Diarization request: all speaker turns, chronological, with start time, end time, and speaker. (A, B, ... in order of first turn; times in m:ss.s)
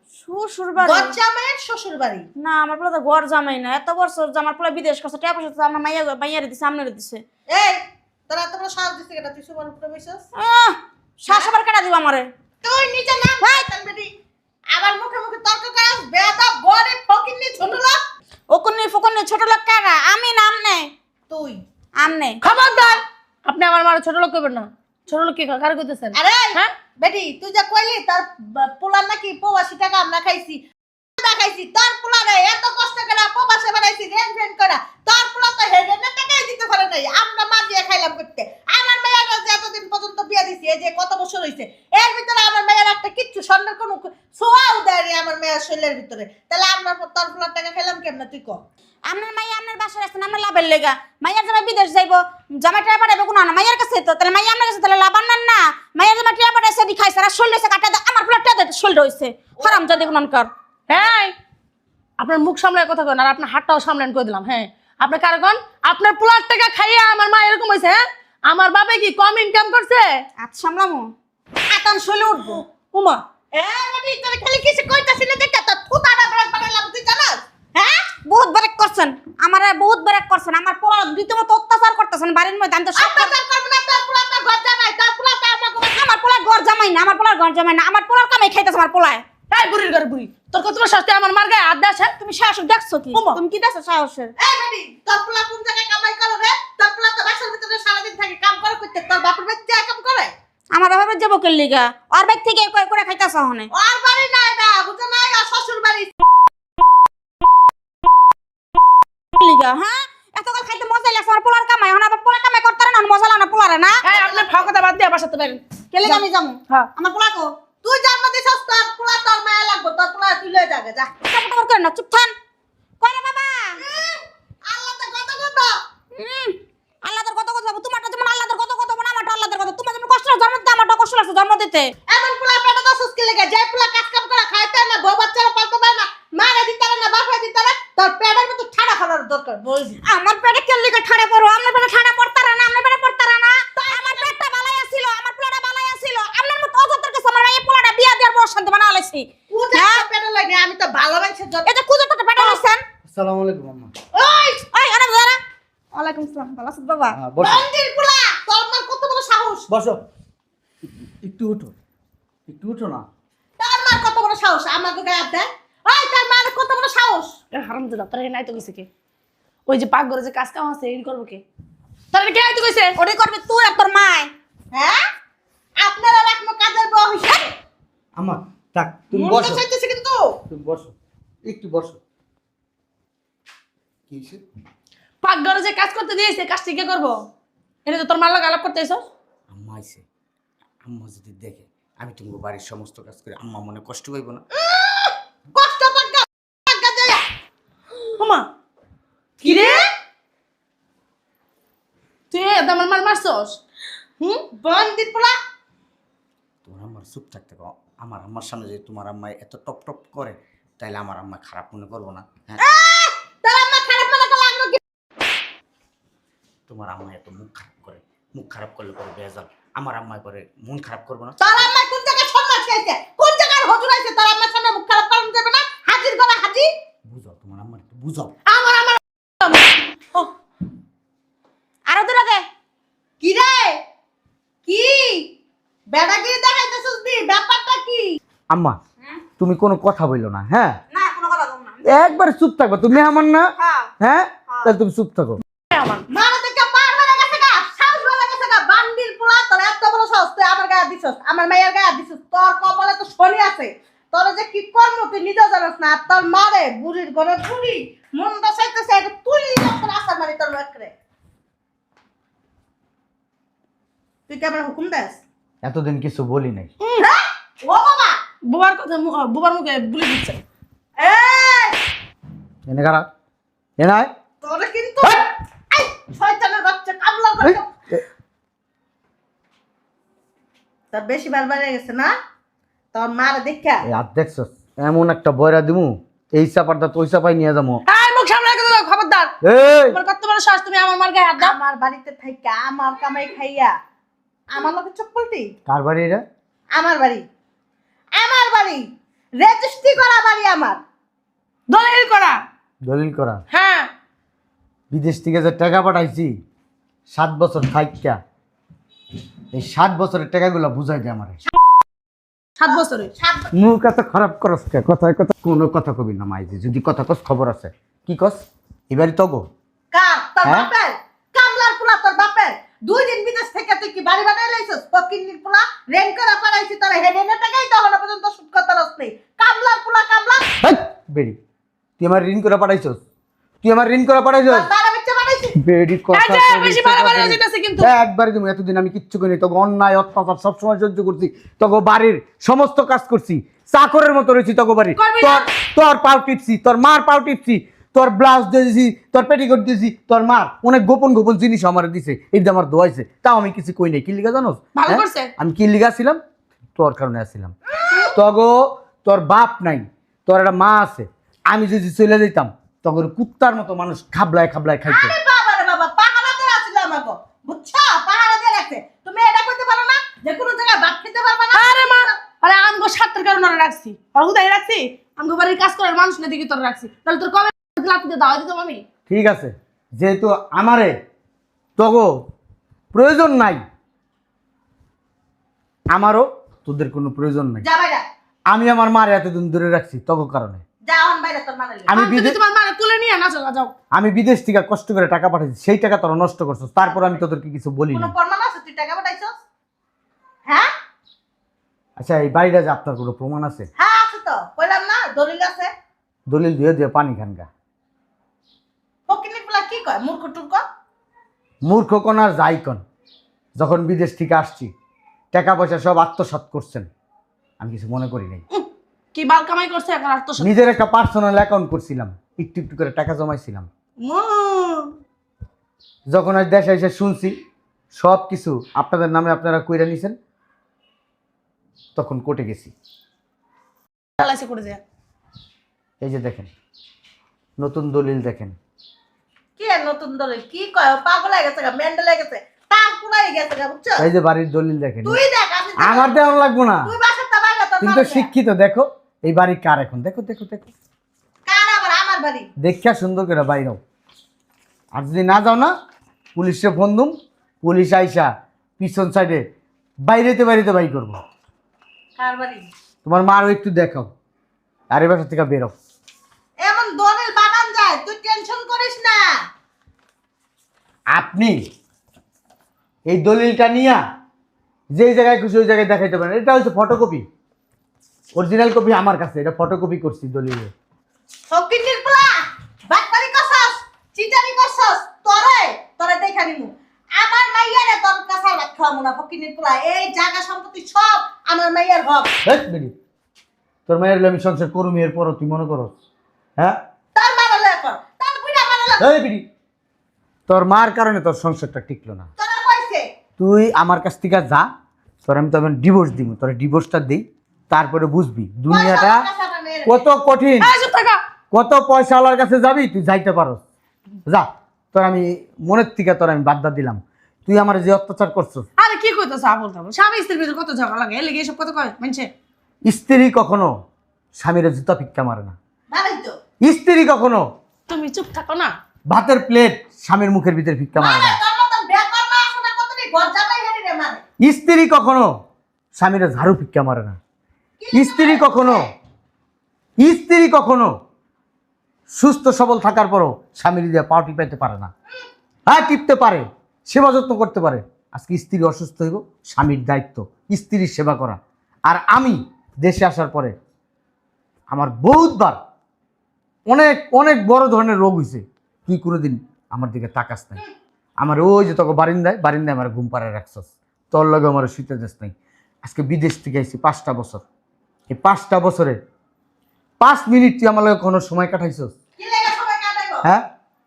0:00.2-0:01.1 A
0:00.8-0:02.3 B
0:02.4-0:07.2 A
0:07.5-0:10.2 B
0:10.3-0:12.3 A
0:12.6-0:14.1 B
0:14.7-0:18.0 B
0:18.5-0:20.9 A
0:21.3-0:21.6 B
0:22.0-0:22.9 A
0:22.4-0:26.7 C
0:26.1-0:30.6 B
0:31.2-0:48.6 B
0:49.1-1:00.5 A
0:59.6-1:00.0 B
1:00.9-1:01.3 C
1:02.2-1:10.2 C
1:10.4-1:11.1 A
1:11.7-1:12.6 A
1:12.9-1:13.2 C
1:13.5-1:18.1 B
1:18.2-1:23.3 A
1:23.0-1:26.1 B
1:25.9-1:29.2 A
1:29.5-1:32.2 C
1:32.2-1:34.3 A
1:33.1-1:33.4 C
1:34.4-1:40.3 B
1:40.7-1:43.7 A
1:43.7-1:46.1 B
1:49.3-1:54.4 A
1:54.0-1:56.9 C
1:55.9-1:57.5 A
1:57.8-2:01.1 B
2:01.2-2:02.3 A
2:03.0-2:03.8 A
2:03.8-2:05.7 B
2:06.1-2:11.9 A
2:12.1-2:20.0 B
2:20.0-2:30.0 A
2:23.7-2:24.4 B
2:29.5-2:31.7 B
2:31.6-2:32.8 A
2:33.1-2:33.9 D
2:34.1-2:34.6 B
2:34.7-2:35.4 A
2:35.9-2:37.2 A
2:37.1-2:37.6 D
2:37.4-2:39.7 B
2:39.7-2:40.0 D
2:41.2-2:41.7 D
2:42.5-2:43.0 D
2:43.6-2:47.3 B
2:47.5-2:48.9 C
2:49.7-2:51.4 C
2:52.1-2:53.0 C
2:53.0-2:54.3 A
2:54.7-2:55.0 B
2:55.8-2:57.5 B
2:58.2-2:59.6 D
2:59.1-3:00.4 B
3:00.5-3:00.9 D
3:01.4-3:02.0 D
3:04.1-3:04.4 D
3:05.2-3:07.2 C
3:07.8-3:09.0 C
3:09.5-3:10.0 D
3:10.8-3:14.4 D
3:14.5-3:17.2 B
3:18.2-3:18.4 C
3:19.4-3:19.8 C
3:19.4-3:19.9 B
3:22.3-3:23.6 C
3:24.2-3:24.5 C
3:24.5-3:25.3 B
3:26.6-3:32.6 D
3:32.6-3:34.8 B
3:36.7-3:41.5 D
3:41.4-3:46.7 B
3:47.1-3:48.3 D
3:48.5-3:48.9 B
3:49.4-3:50.2 C
3:51.9-3:52.4 A
3:53.2-3:53.8 B
3:54.6-3:55.3 B
3:55.9-3:58.2 B
3:58.5-3:58.8 D
3:59.4-4:00.8 D
4:00.9-4:02.1 A
4:01.8-4:05.4 D
4:03.6-4:03.9 A
4:05.7-4:06.0 C
4:06.1-4:20.9 B
4:24.3-4:25.2 B
4:25.6-4:26.7 D
4:26.8-4:27.1 C
4:27.0-4:28.2 B
4:28.4-4:30.4 C
4:31.0-4:31.8 B
4:32.7-4:33.1 D
4:33.8-4:34.1 D
4:34.4-4:37.7 B
4:37.4-4:38.0 D
4:40.9-4:42.1 B
4:42.9-4:43.8 B
4:43.8-4:47.8 D
4:47.9-4:49.3 C
4:49.4-4:50.0 D
4:49.9-4:51.6 C
4:51.4-4:53.7 B
4:54.5-4:55.5 B
4:55.7-4:56.2 D
4:56.7-4:57.2 B
4:58.2-4:58.8 B
4:59.4-5:00.8 B
5:01.7-5:02.4 C
5:02.8-5:03.4 D
5:03.5-5:03.9 C
5:04.9-5:06.4 D
5:07.1-5:08.2 D
5:09.5-5:11.4 D
5:12.6-5:13.1 C
5:12.7-5:13.5 B
5:13.5-5:19.5 D
5:19.9-5:30.5 B
5:30.6-5:31.4 D
5:32.0-5:33.0 D
5:33.6-5:34.7 D
5:34.5-5:35.6 B
5:35.5-5:56.2 D
5:36.1-5:37.9 C
5:45.0-5:45.5 C
5:54.7-5:55.3 C
5:56.7-5:57.5 D
5:57.9-5:58.1 B
5:58.1-6:05.1 D
6:04.9-6:12.2 B
6:11.5-6:18.8 C
6:19.1-6:21.0 D
6:21.8-6:22.1 D
6:22.9-6:23.6 D
6:25.9-6:27.6 D
6:27.6-6:28.0 B
6:28.5-6:30.6 D
6:30.8-6:32.0 B
6:31.9-6:32.4 D
6:31.9-6:33.7 C
6:33.9-6:38.1 D
6:36.8-6:37.2 B
6:37.9-6:39.4 B
6:42.0-6:43.7 D
6:43.8-6:45.7 B
6:46.3-6:47.5 D
6:49.1-6:50.6 B
6:51.6-6:52.8 D
6:53.6-6:54.7 D
6:55.3-6:56.9 D
6:57.6-6:58.4 D
6:58.5-7:00.6 C
7:00.4-7:03.7 D
7:04.0-7:04.9 C
7:06.1-7:07.4 D
7:07.9-7:10.2 D
7:12.0-7:12.7 D
7:14.2-7:14.8 C
7:16.0-7:16.5 D
7:17.6-7:18.6 D
7:19.6-7:24.1 B
7:24.0-7:25.2 D
7:25.0-7:28.3 B
7:25.8-7:26.9 D
7:27.8-7:30.7 D
7:31.4-7:32.5 B
7:32.6-7:33.8 D
7:34.9-7:35.7 D
7:36.4-7:39.4 D
7:40.0-7:41.2 D
7:42.2-7:42.7 B
7:43.0-7:44.1 D
7:44.9-7:45.7 D
7:46.6-7:49.2 B
7:51.1-7:51.6 D
7:53.1-7:54.0 D
7:54.9-7:57.2 D
7:58.3-8:00.7 D
8:01.5-8:12.3 B
8:12.4-8:12.9 D
8:13.9-8:15.9 D
8:17.1-8:19.0 B
8:19.0-8:19.4 D
8:20.5-8:22.3 D
8:22.4-8:23.0 B
8:23.4-8:24.7 D
8:25.2-8:29.2 D
8:28.7-8:30.1 B
8:29.8-8:30.7 D
8:30.6-8:31.2 C
8:31.5-8:33.6 D
8:34.3-8:38.7 D
8:38.8-8:42.3 C
8:42.8-8:43.7 D
8:44.3-8:45.5 D
8:45.9-8:46.4 B
8:46.6-8:47.4 D
8:47.9-8:48.7 C
8:49.1-8:51.4 D
8:51.0-8:54.2 B
8:54.4-8:55.3 D
8:56.0-8:57.2 D
8:57.8-8:58.9 B
8:57.9-8:58.8 D
9:00.0-9:00.9 D
9:02.1-9:04.9 D
9:05.7-9:13.5 D
9:14.7-9:15.6 D
9:16.7-9:20.6 D
9:21.2-9:27.4 D
9:28.1-9:29.0 D
9:30.0-9:31.9 D
9:32.2-9:33.2 B